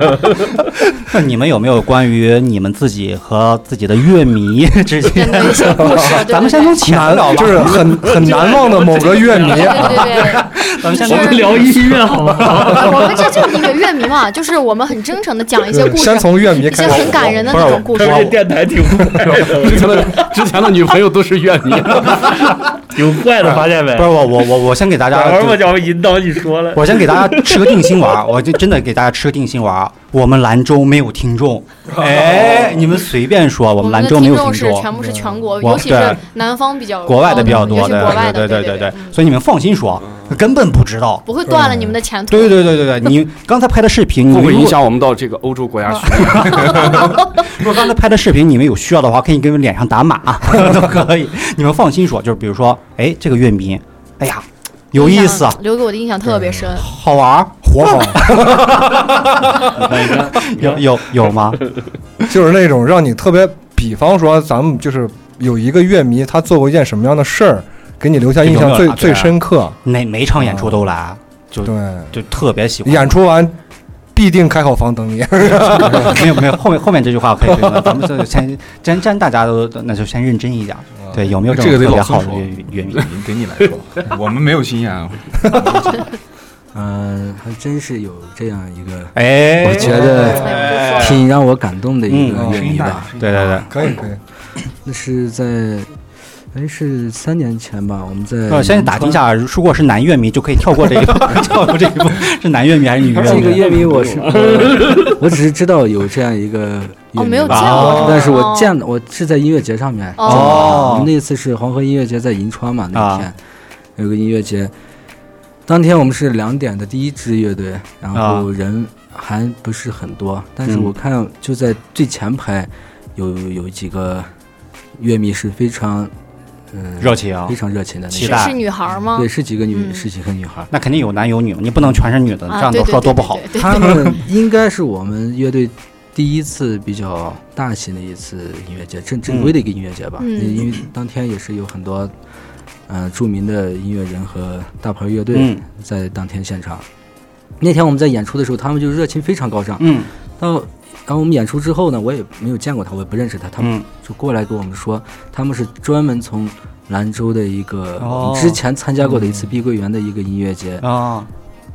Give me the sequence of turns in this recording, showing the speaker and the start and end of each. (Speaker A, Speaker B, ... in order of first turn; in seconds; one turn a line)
Speaker A: 1.0-8.0
Speaker B: 5.1-6.8
Speaker C: 6.8-10.1
Speaker D: 7.8-13.4
Speaker B: 9.4-11.5
Speaker A: 10.6-11.9
Speaker B: 12.7-18.3
Speaker C: 15.7-17.8
Speaker D: 17.5-20.3
Speaker A: 17.6-18.2
Speaker E: 19.2-22.5
Speaker D: 22.9-24.2
Speaker A: 23.4-25.7
Speaker D: 25.1-28.2
Speaker A: 26.7-34.9
Speaker C: 32.0-32.7
Speaker B: 33.8-39.2
Speaker C: 35.0-35.5
Speaker A: 35.6-36.2
Speaker A: 37.0-41.3
Speaker B: 41.2-42.8
Speaker C: 41.5-41.9
Speaker A: 42.3-44.8
Speaker E: 44.3-47.1
Speaker A: 46.2-55.6
Speaker B: 54.9-56.9
Speaker A: 56.7-61.6
Speaker C: 57.6-59.0
Speaker D: 59.8-60.8
Speaker C: 62.2-69.8
Speaker A: 68.4-73.1
Speaker C: 70.4-70.8
Speaker C: 71.6-72.2
Speaker C: 72.8-73.6
Speaker C: 74.1-76.4
Speaker A: 75.5-83.1
Speaker C: 77.5-78.0
Speaker F: 81.5-85.6
Speaker C: 85.5-85.8
Speaker G: 86.7-93.1
Speaker A: 89.1-91.2
Speaker B: 90.1-91.2
Speaker A: 92.1-92.5
Speaker C: 92.3-92.7
Speaker F: 92.4-93.6
Speaker A: 93.2-93.8
Speaker C: 93.4-94.2
Speaker G: 94.8-96.0
Speaker G: 96.5-99.2
Speaker A: 98.5-103.7
Speaker G: 103.1-113.4
Speaker D: 103.3-105.2
Speaker B: 107.1-108.7
Speaker A: 107.5-108.2
Speaker B: 110.2-110.9
Speaker A: 110.2-111.1
Speaker A: 112.9-113.3
Speaker G: 114.0-114.7
Speaker G: 115.7-124.3
Speaker A: 118.1-118.5
Speaker A: 120.7-120.9
Speaker G: 124.9-126.1
Speaker G: 126.7-128.6
Speaker A: 127.0-127.6
Speaker A: 128.1-128.5
Speaker B: 128.2-130.1
Speaker G: 129.1-130.7
Speaker A: 130.7-133.9
Speaker B: 132.5-134.0
Speaker G: 133.5-142.1
Speaker A: 139.3-139.5
Speaker B: 140.2-140.7
Speaker G: 142.9-146.8
Speaker A: 145.3-145.6
Speaker G: 147.6-160.8
Speaker A: 149.8-150.1
Speaker A: 153.6-153.8
Speaker A: 158.0-159.4
Speaker A: 160.8-161.3